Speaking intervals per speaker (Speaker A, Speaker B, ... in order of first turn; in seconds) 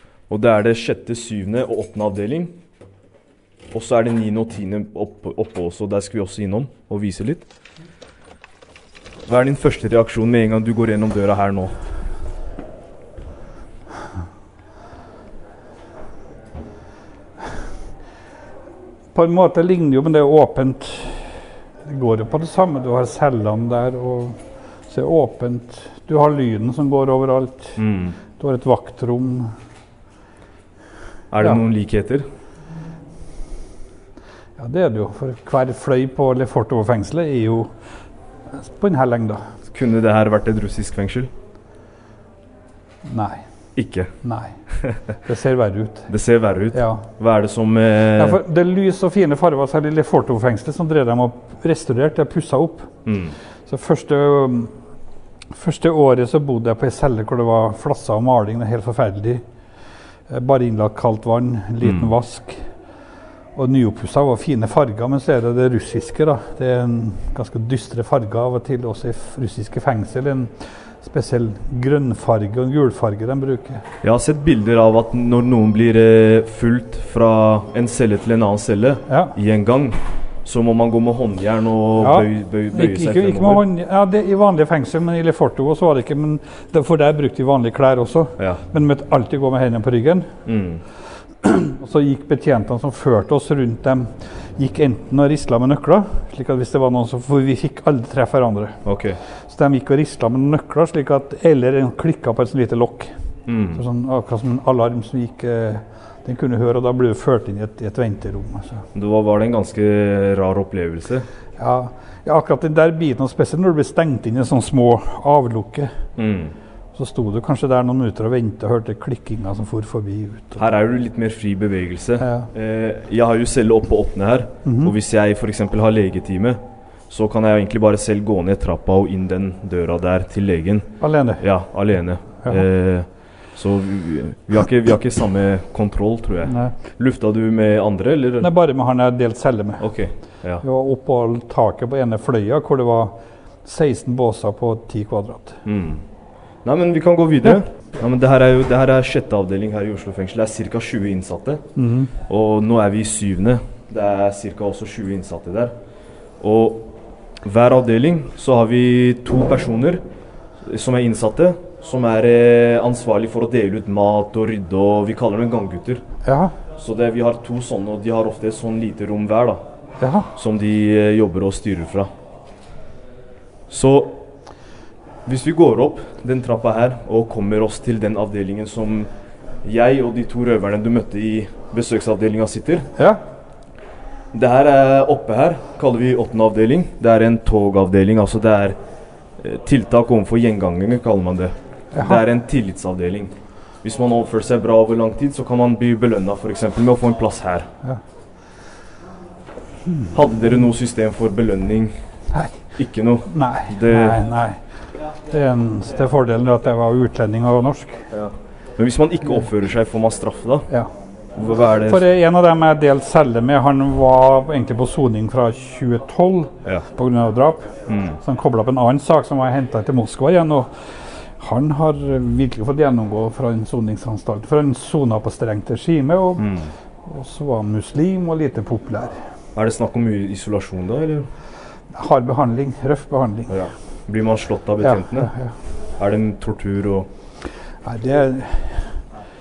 Speaker A: 0.3-2.5, 3.7-7.4, 9.2-11.8, 27.8-28.2, 31.3-32.2, 39.7-41.3, 43.8-44.1, 46.1-48.4, 53.0-53.3, 61.8-62.1, 74.0-83.6, 90.5-90.8, 98.8-99.2, 103.5-103.8, 108.9-111.2, 116.2-116.5, 120.6-138.5, 139.8-140.6, 145.7-146.0, 146.6-151.6, 152.3-155.7, 156.4-156.9, 157.4-160.0, 160.6-166.0, 166.8-169.6, 170.3-172.1, 173.7-174.2, 175.2-179.1, 179.6-182.9, 184.3-188.8, 189.4-197.7, 200.1-201.9, 202.8-204.2, 208.1-210.7, 211.3-212.0, 217.9-218.2, 226.4-226.7, 229.5-231.3, 233.5-235.3, 236.0-237.1
Speaker B: 19.1-27.8, 28.4-29.5, 34.6-37.7, 38.5-39.4, 43.0-43.4, 44.2-44.5, 45.2-46.1, 46.7-47.0, 48.2-52.9, 53.7-54.7, 55.5-59.4, 60.3-62.6, 63.5-73.8, 79.1-79.3, 82.0-90.3, 91.4-98.8, 99.5-103.1, 103.7-108.8, 111.6-115.9, 116.9-120.7, 122.2-122.5, 124.6-124.9, 131.0-131.4, 136.5-136.7, 138.4-139.9, 140.6-145.6, 151.8-152.1, 166.2-166.5, 170.0-170.3, 191.9-192.2, 202.3-202.6, 203.3-204.6, 205.3-208.0, 211.8-220.7, 221.4-226.5, 227.1-229.2, 231.9-233.6, 234.8-235.5, 237.8-238.9